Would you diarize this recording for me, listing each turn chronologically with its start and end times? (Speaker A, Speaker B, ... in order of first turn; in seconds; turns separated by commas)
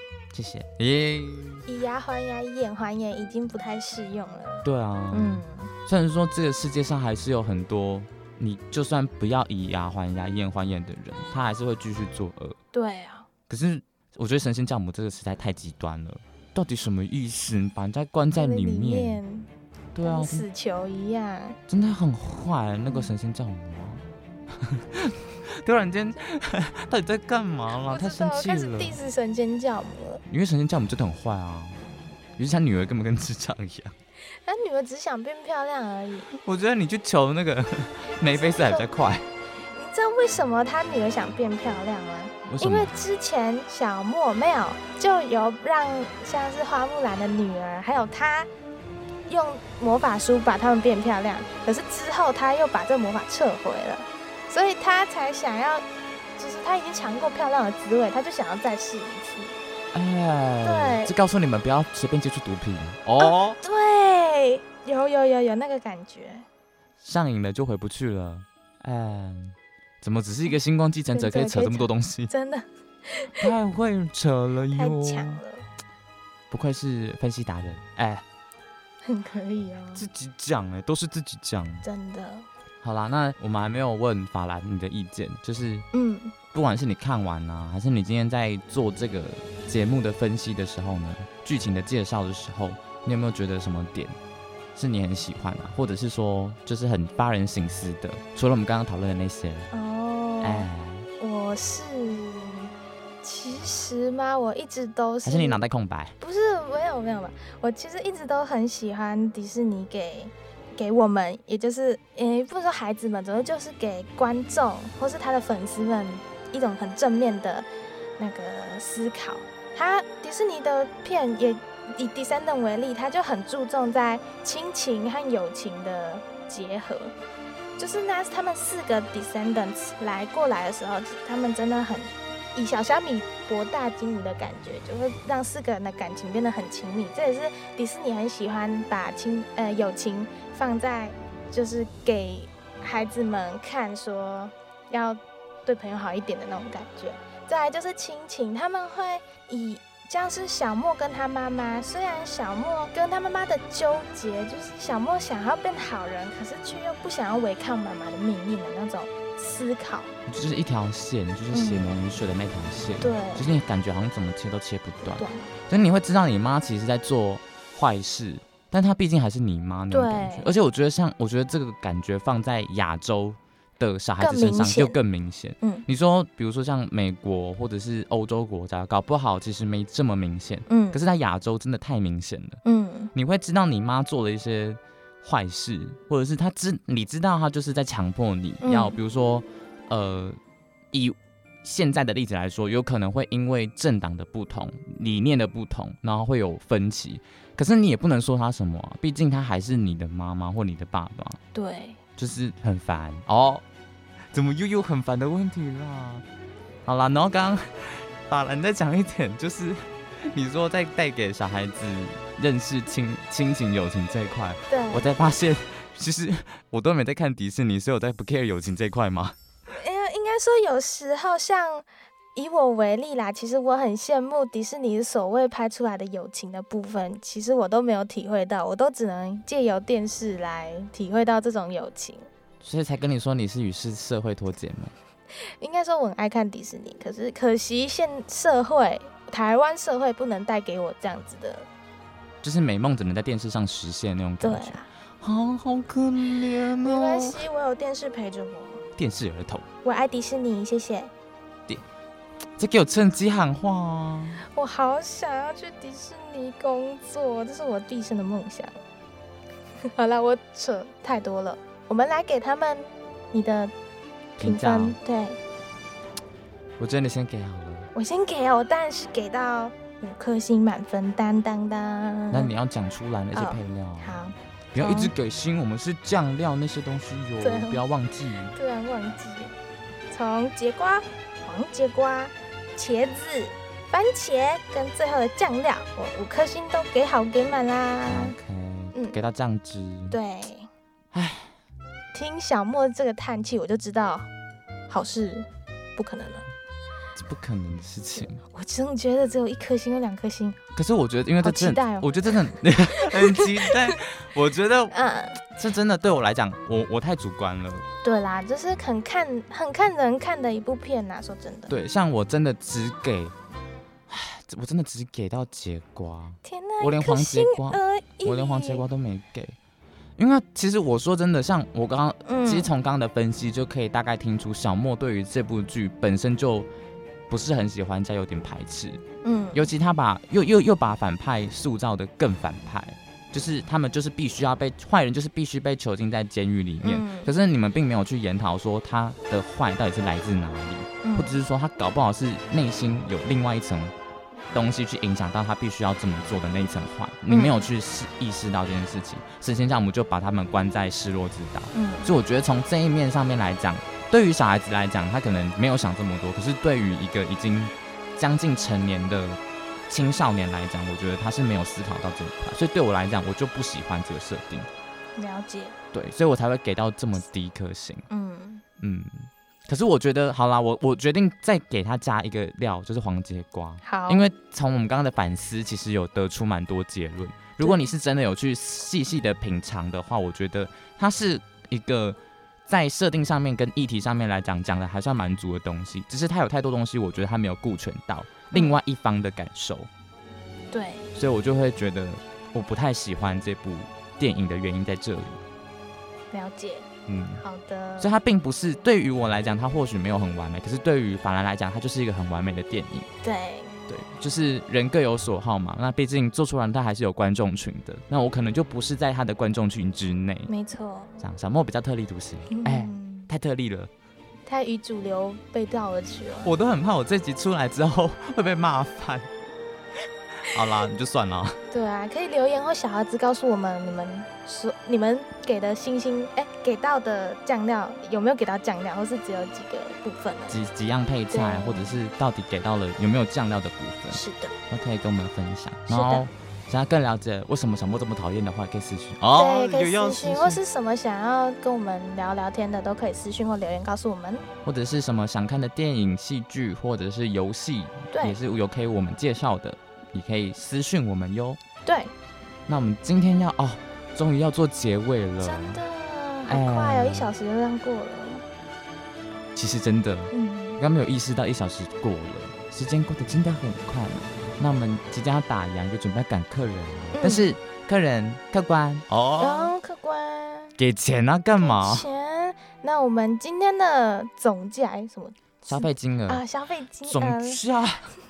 Speaker A: 0.3-1.7, Speaker B: 1.7-5.7, Speaker A: 4.6-12.6, Speaker B: 12.7-13.3, Speaker A: 13.5-19.2, Speaker B: 18.3-19.5, Speaker A: 19.9-20.5, Speaker B: 20.0-21.6, Speaker A: 21.7-29.0, Speaker B: 27.8-30.2, Speaker A: 30.3-31.8, Speaker A: 32.4-33.9, Speaker B: 34.5-36.3, Speaker A: 36.3-39.3, Speaker B: 38.3-38.9, Speaker B: 39.8-48.5, Speaker A: 42.5-42.9, Speaker B: 49.3-55.9, Speaker B: 56.4-59.6, Speaker A: 59.9-63.6, Speaker B: 60.6-61.1, Speaker B: 63.2-66.5, Speaker A: 67.0-72.3, Speaker B: 71.1-73.5, Speaker A: 73.4-75.4, Speaker B: 74.7-75.7, Speaker A: 76.5-78.2, Speaker B: 79.0-80.0, Speaker A: 79.9-81.9, Speaker B: 81.8-82.5, Speaker A: 82.8-85.9, Speaker B: 85.9-86.3, Speaker A: 86.5-94.2, Speaker A: 94.8-99.7, Speaker B: 99.7-105.6, Speaker A: 100.4-101.1, Speaker A: 105.2-106.2, Speaker B: 106.2-117.7, Speaker B: 118.2-127.1, Speaker B: 127.8-160.1, Speaker A: 160.3-182.6, Speaker B: 161.5-162.0, Speaker B: 163.0-163.5, Speaker B: 165.0-165.5, Speaker B: 169.9-170.5, Speaker B: 174.2-175.0, Speaker B: 180.7-181.0, Speaker B: 182.7-183.1, Speaker A: 183.1-190.4, Speaker B: 188.6-189.0, Speaker A: 190.9-201.4, Speaker B: 201.5-202.0, Speaker A: 202.2-203.6, Speaker A: 204.3-206.2, Speaker A: 206.8-219.4, Speaker B: 214.7-215.1, Speaker B: 219.7-232.3, Speaker A: 232.6-234.9, Speaker B: 235.4-241.7, Speaker A: 242.4-247.4, Speaker B: 244.4-244.9, Speaker B: 246.8-248.8, Speaker A: 249.0-249.7, Speaker B: 249.8-251.1, Speaker A: 252.6-254.4, Speaker B: 254.5-258.8, Speaker B: 259.9-263.7, Speaker A: 264.4-265.0, Speaker B: 264.4-265.4, Speaker A: 266.8-267.9, Speaker B: 267.9-272.5, Speaker A: 272.3-274.2, Speaker B: 273.3-275.1, Speaker A: 274.7-278.6, Speaker B: 277.4-277.8, Speaker B: 278.5-279.6, Speaker B: 280.1-288.4, Speaker A: 288.1-290.2, Speaker B: 288.9-289.2, Speaker B: 290.1-290.7, Speaker A: 291.1-291.5, Speaker B: 292.1-294.3, Speaker B: 294.9-296.5, Speaker A: 297.2-298.4, Speaker B: 298.2-300.6, Speaker A: 300.8-307.9, Speaker B: 301.4-304.0, Speaker B: 304.9-305.4, Speaker B: 308.0-311.8, Speaker A: 311.7-313.3, Speaker A: 314.1-319.6, Speaker B: 316.4-318.8, Speaker A: 320.2-326.7, Speaker B: 322.2-322.7, Speaker A: 327.3-329.0, Speaker B: 329.2-329.7, Speaker A: 329.5-343.9, Speaker B: 336.8-337.3, Speaker B: 341.0-341.4, Speaker A: 344.5-364.7, Speaker B: 347.3-347.7, Speaker B: 351.7-352.1, Speaker B: 365.2-365.8, Speaker A: 365.9-368.1, Speaker B: 368.1-368.6, Speaker A: 368.8-389.9, Speaker B: 373.8-374.2, Speaker B: 377.6-377.9, Speaker B: 388.5-388.8, Speaker B: 390.7-391.1, Speaker A: 391.1-395.4, Speaker B: 396.3-396.9, Speaker A: 397.1-397.4, Speaker B: 397.4-398.2, Speaker A: 398.0-403.1, Speaker B: 403.2-403.8, Speaker A: 403.9-410.5, Speaker B: 410.5-411.2, Speaker A: 411.2-413.9, Speaker B: 412.5-413.3, Speaker B: 414.5-416.5, Speaker A: 416.4-419.3, Speaker A: 420.4-421.6, Speaker B: 421.7-430.6, Speaker A: 430.5-440.6, Speaker B: 431.3-432.0, Speaker B: 434.1-434.6, Speaker B: 435.9-436.3, Speaker B: 439.4-444.5, Speaker A: 444.6-451.6, Speaker B: 448.1-448.4, Speaker B: 451.9-452.1, Speaker A: 452.7-455.8, Speaker B: 455.4-458.4, Speaker A: 456.5-457.3, Speaker A: 459.6-469.7, Speaker B: 460.3-460.8, Speaker B: 467.1-467.5, Speaker B: 469.4-470.8, Speaker A: 470.8-472.1, Speaker B: 471.6-477.6, Speaker A: 475.6-476.4, Speaker A: 477.0-478.1